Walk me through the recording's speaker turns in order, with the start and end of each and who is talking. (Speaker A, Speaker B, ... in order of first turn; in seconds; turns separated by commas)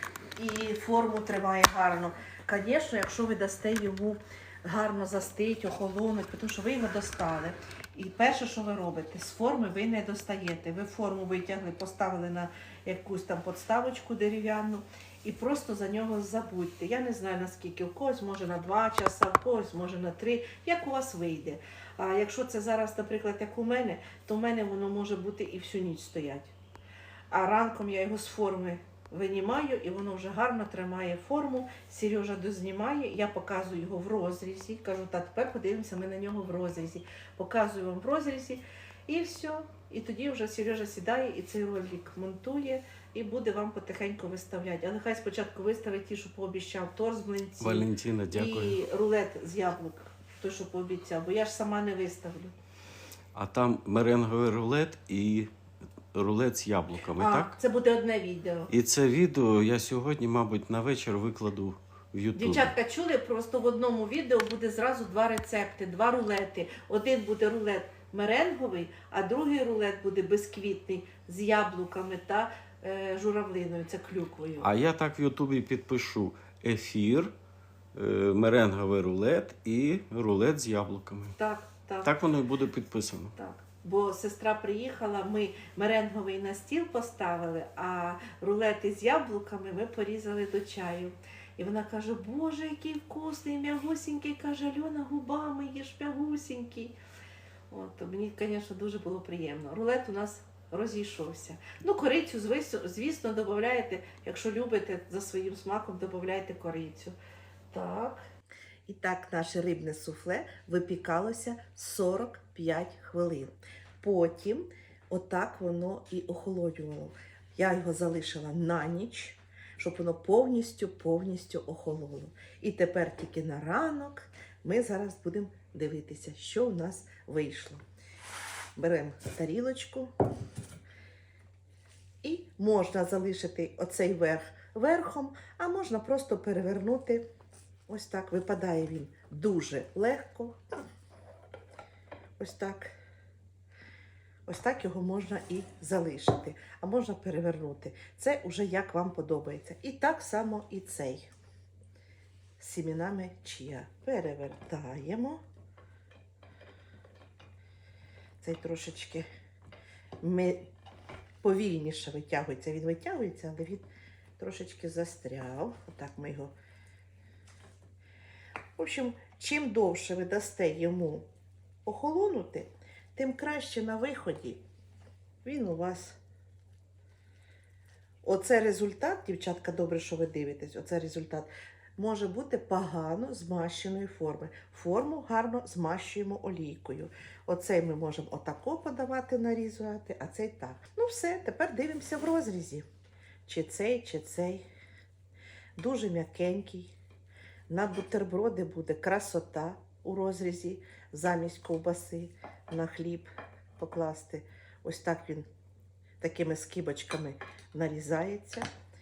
Speaker A: 0.4-26.5, Speaker A: 27.3-52.5, Speaker B: 47.6-48.8, Speaker B: 53.4-55.5, Speaker B: 56.1-57.5, Speaker A: 57.2-58.7, Speaker B: 58.7-62.7, Speaker A: 62.4-74.7, Speaker B: 74.6-77.3, Speaker B: 78.0-81.4, Speaker A: 81.4-82.1, Speaker B: 82.0-83.3, Speaker A: 83.4-97.0, Speaker A: 97.7-107.2, Speaker A: 107.7-108.2, Speaker A: 108.9-127.8, Speaker A: 128.8-130.1, Speaker A: 132.2-137.2, Speaker A: 137.9-140.6, Speaker A: 142.4-143.0, Speaker A: 144.5-151.3, Speaker A: 152.6-155.4, Speaker A: 158.4-159.3, Speaker A: 160.2-160.7, Speaker A: 161.4-163.8, Speaker A: 164.4-166.5, Speaker A: 168.8-171.3, Speaker A: 171.8-174.6, Speaker A: 175.4-176.2, Speaker A: 178.2-192.8, Speaker A: 193.5-194.7, Speaker A: 195.8-196.9, Speaker A: 197.7-205.5, Speaker A: 206.2-208.7